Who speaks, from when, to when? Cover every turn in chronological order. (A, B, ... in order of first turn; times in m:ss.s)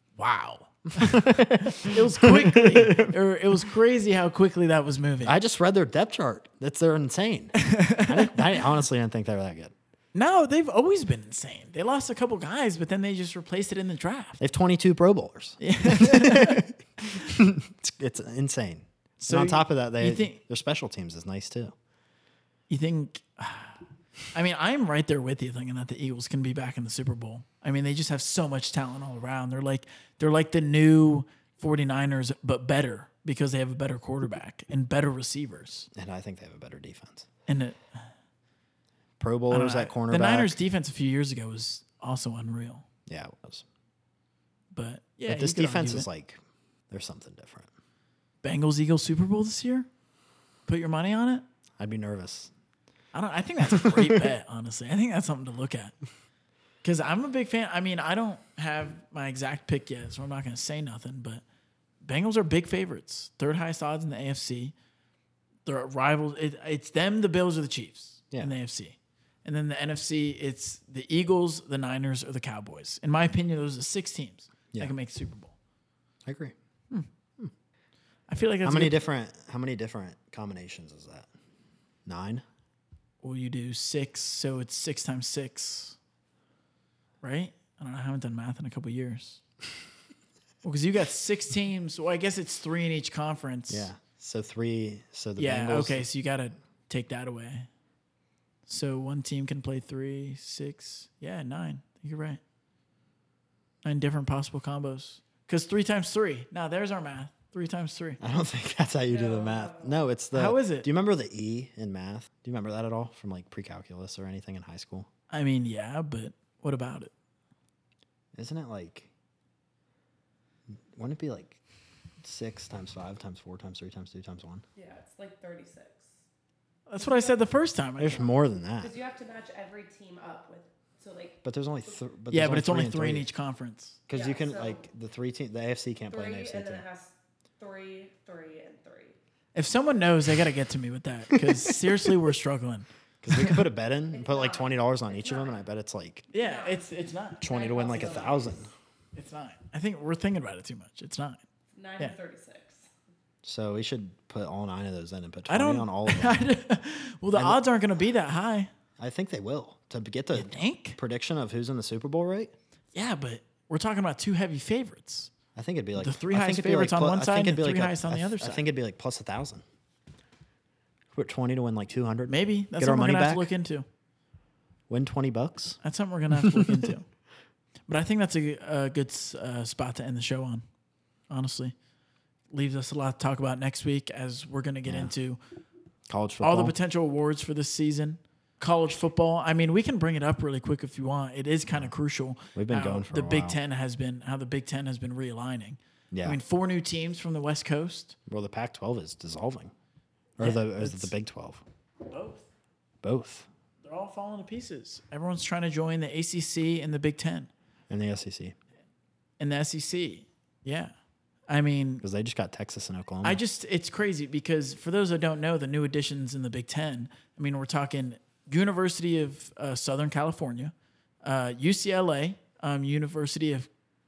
0:00.2-0:05.4 A
0:01.0-0:03.2 B
0:05.2-0:09.7 B
0:07.6-0:08.6 A
0:10.1-0:14.4 A
0:14.4-0:21.7 B
0:15.6-0:16.6 A
0:19.2-0:20.4 A
0:22.7-0:23.8 A
0:24.3-0:35.9 A
0:35.9-0:37.3 B
0:37.5-0:38.1 A
0:39.2-0:40.6 B
0:39.5-0:42.8 A
0:43.1-0:43.7 B
0:44.7-0:46.1 A
0:45.3-0:46.4 B
0:46.9-0:47.7 B
0:48.4-0:49.9 A
0:50.7-0:51.4 A
0:51.8-0:52.5 B
0:53.1-0:55.9 A
0:53.7-0:54.3 B
0:56.8-1:01.4 A
1:02.0-1:04.7 A
1:05.6-1:15.6 A
1:16.2-1:16.6 B
1:18.3-1:19.0 A
1:18.6-1:21.3 B
1:22.0-1:22.4 B
1:23.2-1:26.0 A
1:27.2-1:29.4 A
1:30.6-1:33.9 A
1:33.7-1:36.0 B
1:35.4-1:37.7 A
1:38.7-1:42.4 A
1:43.8-1:48.2 A
1:48.2-1:55.1 B
1:49.1-1:50.0 C
1:50.3-1:50.9 A
1:55.3-1:57.1 A
1:58.4-1:59.1 B
2:01.0-2:01.6 B
2:02.2-2:04.6 B
2:04.8-2:06.1 C
2:06.9-2:08.3 A
2:07.0-2:07.5 C
2:08.0-2:09.0 B
2:08.8-2:11.4 C
2:11.4-2:13.3 B
2:12.3-2:14.0 A
2:14.1-2:16.8 B
2:14.1-2:14.9 C
2:16.1-2:19.2 C
2:19.6-2:23.6 A
2:23.2-2:26.3 B
2:24.1-2:25.6 C
2:26.3-2:28.3 A
2:26.3-2:28.7 C
2:27.4-2:28.7 B
2:29.1-2:31.4 A
2:31.7-2:32.9 C
2:33.4-2:36.4 B
2:35.5-2:38.7 A
2:37.3-2:37.6 B
2:39.0-2:42.5 B
2:40.3-2:41.0 A
2:42.9-2:45.3 A
2:45.6-2:49.6 B
2:46.0-2:48.6 A
2:51.1-2:53.5 B
2:52.3-2:53.8 A
2:54.9-2:55.8 B
2:55.8-2:57.1 A
2:56.4-2:56.8 B
2:57.9-3:00.6 A
3:01.3-3:01.7 A
3:02.5-3:05.4 A
3:04.9-3:05.1 B
3:06.1-3:06.7 B
3:06.4-3:18.2 A
3:12.6-3:13.6 B
3:16.1-3:16.4 B
3:18.3-3:19.7 B
3:20.4-3:21.6 B
3:20.4-3:21.1 A
3:22.1-3:22.5 A
3:23.0-3:23.5 B
3:23.8-3:27.5 A
3:27.9-3:28.6 B
3:29.4-3:30.9 A
3:31.5-3:32.0 A
3:32.0-3:33.4 B
3:33.2-3:43.7 A